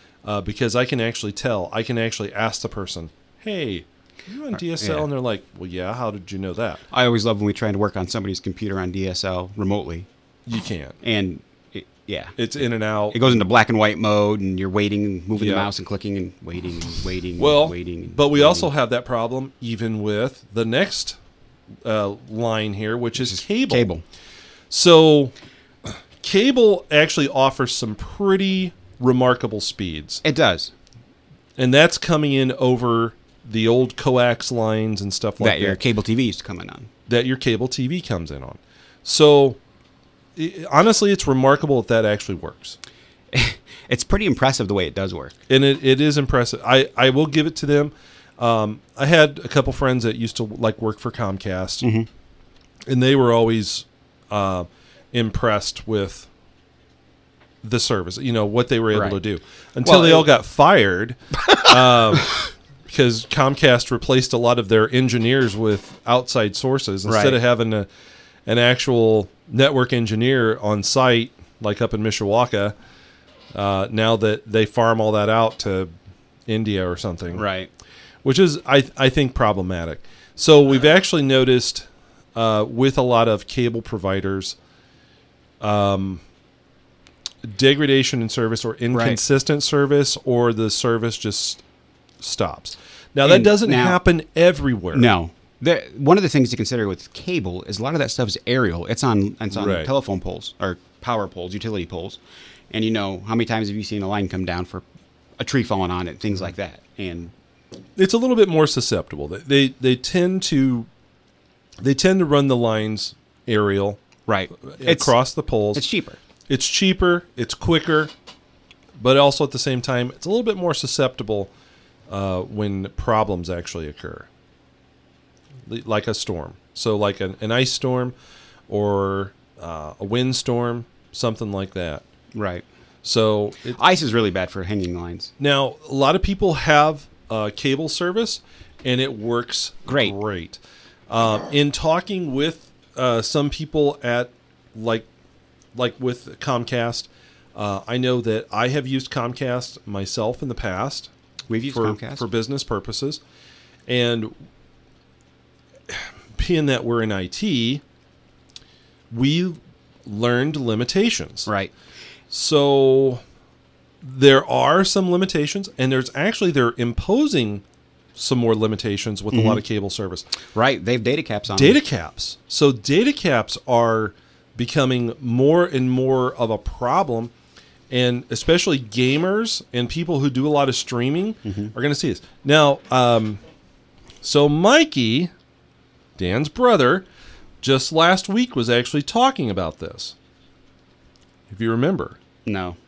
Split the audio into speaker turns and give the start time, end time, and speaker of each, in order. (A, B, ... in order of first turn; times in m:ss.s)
0:00.2-0:06.8 A
0:04.5-0:05.1 B
0:06.9-0:10.1 B
0:10.5-0:11.0 A
0:11.0-0:12.4 B
0:12.4-0:13.4 A
0:13.1-0:18.7 B
0:15.4-0:15.7 A
0:17.4-0:21.2 A
0:21.8-0:23.9 A
0:23.2-0:24.0 B
0:24.7-0:25.3 A
0:25.9-0:30.2 A
0:30.2-0:30.7 B
0:31.6-0:35.8 A
0:35.4-0:36.9 B
0:37.1-0:39.6 A
0:40.4-0:42.8 A
0:43.3-0:45.3 B
0:45.5-0:51.8 A
0:51.8-0:52.1 B
0:52.9-0:56.3 A
0:57.6-1:02.4 A
0:59.8-1:00.3 B
1:02.9-1:07.9 A
1:07.1-1:07.4 B
1:08.5-1:12.8 A
1:13.5-1:15.9 A
1:16.5-1:17.4 A
1:17.3-1:17.7 B
1:18.2-1:24.6 A
1:25.6-1:26.2 A
1:27.4-1:31.6 A
1:28.9-1:29.2 B
1:32.2-1:35.1 A
1:33.2-1:34.0 B
1:34.9-1:42.2 B
1:39.5-1:39.9 A
1:42.7-1:44.8 B
1:45.4-1:47.3 B
1:48.0-1:50.9 A
1:51.8-1:54.0 A
1:54.3-1:55.1 B
1:54.7-1:55.8 A
1:55.7-1:56.2 B
1:56.5-1:58.1 A
1:59.0-2:01.5 A
2:02.1-2:04.3 A
2:05.7-2:08.1 A
2:08.7-2:12.0 A
2:12.4-2:12.6 B
2:13.0-2:13.8 A
2:13.7-2:15.3 B
2:15.4-2:25.1 A
2:19.9-2:20.2 B
2:25.8-2:31.1 A
2:31.5-2:32.2 B
2:31.7-2:33.2 A
2:33.9-2:34.3 A
2:35.9-2:37.8 A
2:39.1-2:41.5 A
2:41.5-2:41.7 B
2:42.3-2:43.2 A
2:44.0-2:47.6 A
2:48.2-2:50.3 A
2:49.3-2:49.6 B
2:50.5-2:51.8 B
2:51.5-2:57.3 A
2:57.9-3:03.4 A
3:01.4-3:01.7 B
3:04.2-3:05.3 A
3:06.2-3:07.0 A
3:07.6-3:10.1 A
3:11.5-3:12.2 A
3:12.5-3:12.8 B